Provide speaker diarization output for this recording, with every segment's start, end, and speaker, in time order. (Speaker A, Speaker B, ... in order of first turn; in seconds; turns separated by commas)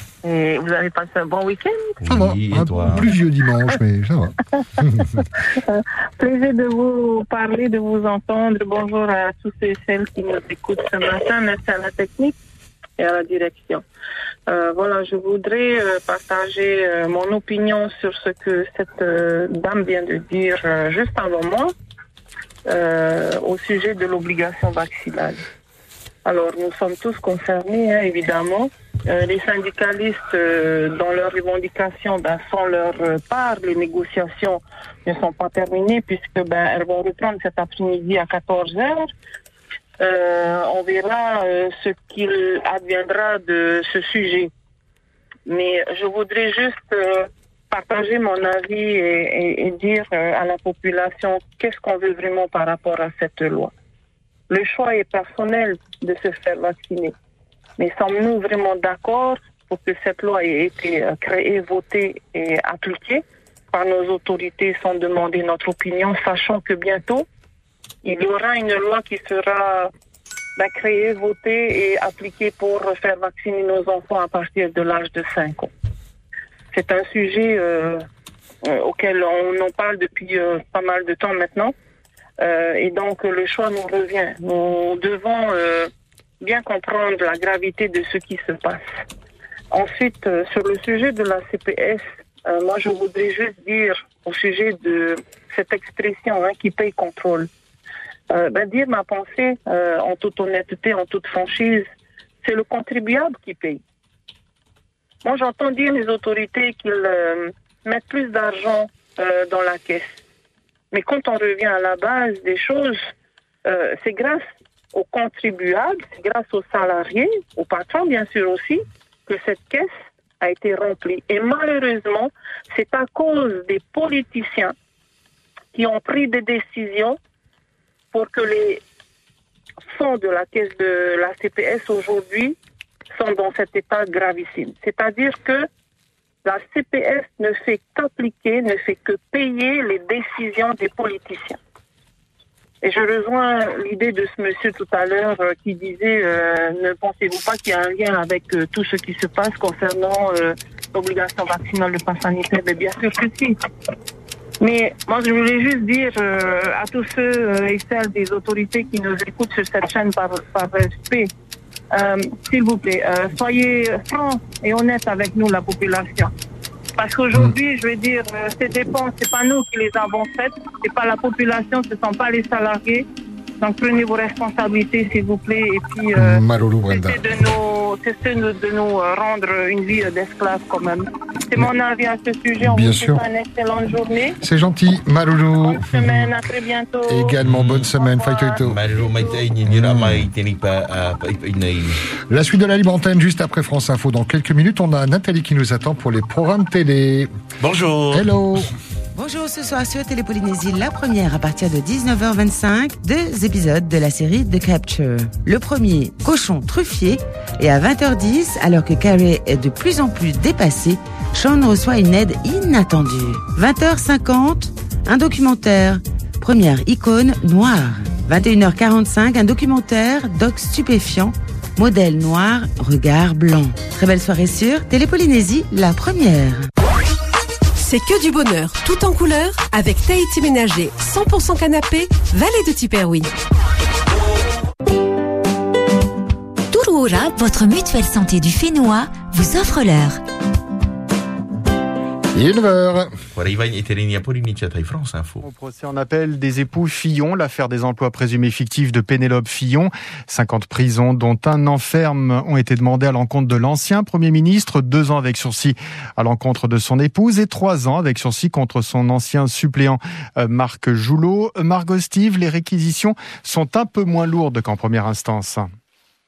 Speaker A: 0.2-1.9, Speaker B: 2.0-3.1, Speaker C: 2.0-4.3, Speaker C: 4.8-5.2, Speaker A: 5.6-12.3, Speaker A: 13.0-13.8, Speaker A: 14.5-21.7, Speaker A: 22.7-25.4, Speaker A: 26.2-39.1, Speaker A: 40.0-44.5, Speaker A: 45.5-53.7, Speaker A: 54.5-57.1, Speaker A: 57.8-67.3, Speaker A: 68.0-69.9, Speaker A: 70.6-75.7, Speaker A: 76.7-78.0, Speaker A: 78.6-81.7, Speaker A: 82.4-85.9, Speaker A: 86.4-89.0, Speaker A: 89.7-97.5, Speaker A: 98.3-101.9, Speaker A: 102.4-103.8, Speaker A: 105.2-110.2, Speaker A: 110.9-113.1, Speaker A: 113.6-124.7, Speaker A: 125.7-127.2, Speaker A: 128.1-128.8, Speaker A: 129.8-132.6, Speaker A: 133.1-135.7, Speaker A: 136.4-141.6, Speaker A: 142.8-153.6, Speaker A: 154.6-161.3, Speaker A: 161.9-166.3, Speaker A: 167.0-173.0, Speaker A: 173.6-184.4, Speaker C: 176.2-177.3, Speaker C: 182.6-183.2, Speaker C: 184.4-186.3, Speaker A: 185.6-187.3, Speaker C: 187.1-188.8, Speaker B: 187.4-187.9, Speaker A: 187.9-188.6, Speaker B: 188.6-191.9, Speaker C: 189.7-190.2, Speaker C: 192.3-197.3, Speaker B: 197.6-198.2, Speaker C: 198.1-198.7, Speaker D: 199.1-226.7, Speaker E: 227.8-233.3, Speaker F: 236.7-240.2, Speaker C: 242.3-243.1, Speaker B: 243.3-245.4, Speaker G: 245.4-265.7